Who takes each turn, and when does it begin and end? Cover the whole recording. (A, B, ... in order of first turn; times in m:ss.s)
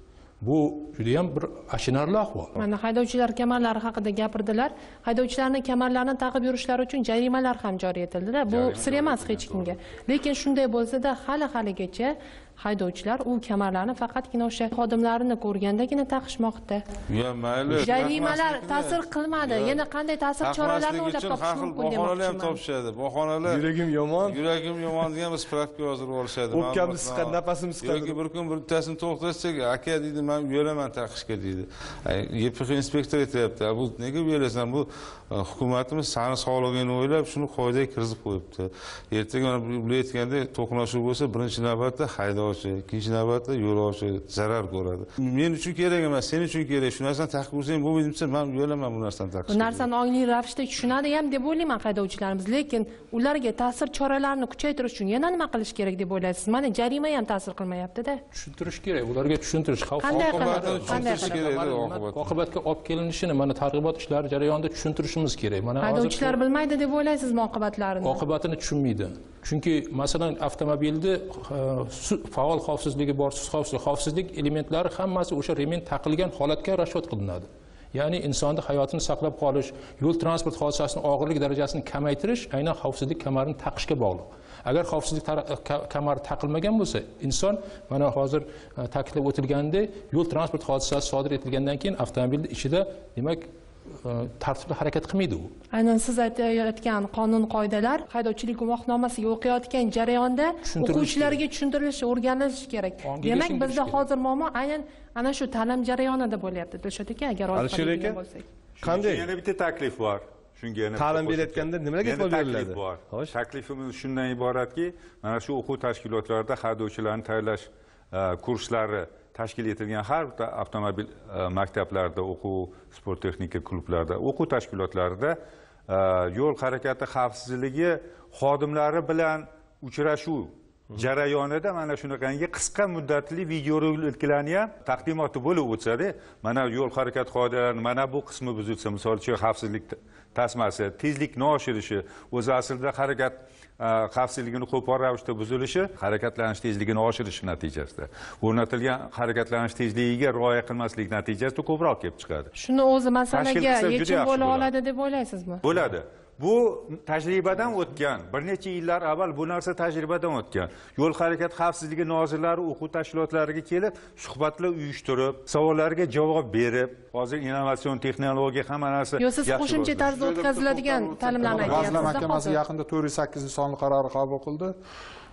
0:00.4-0:02.5 A
0:02.5-0:16.8 B
0:08.4-0:09.7 C
0:17.1-0:19.8 D
0:17.7-0:22.6 B
0:20.4-0:23.7 D
0:23.4-0:24.4 E
0:24.2-0:49.9 D
0:26.5-0:28.2 E
0:49.5-0:58.2 B
0:58.3-1:06.4 A
1:00.0-1:01.5 B
1:00.1-1:02.3 D
1:05.8-1:08.2 B
1:08.0-1:33.5 A
1:34.0-1:35.5 A
1:35.7-1:48.4 B
1:40.6-1:41.4 A
1:43.0-1:44.1 A
1:47.5-1:48.2 E
1:48.8-2:32.5 C
1:48.8-1:49.3 E
1:51.0-1:53.3 E
2:32.5-2:35.6 B
2:33.3-2:34.7 C
2:35.6-2:50.1 C
2:49.2-2:52.6 B
2:49.9-2:54.8 F
2:51.4-2:52.2 C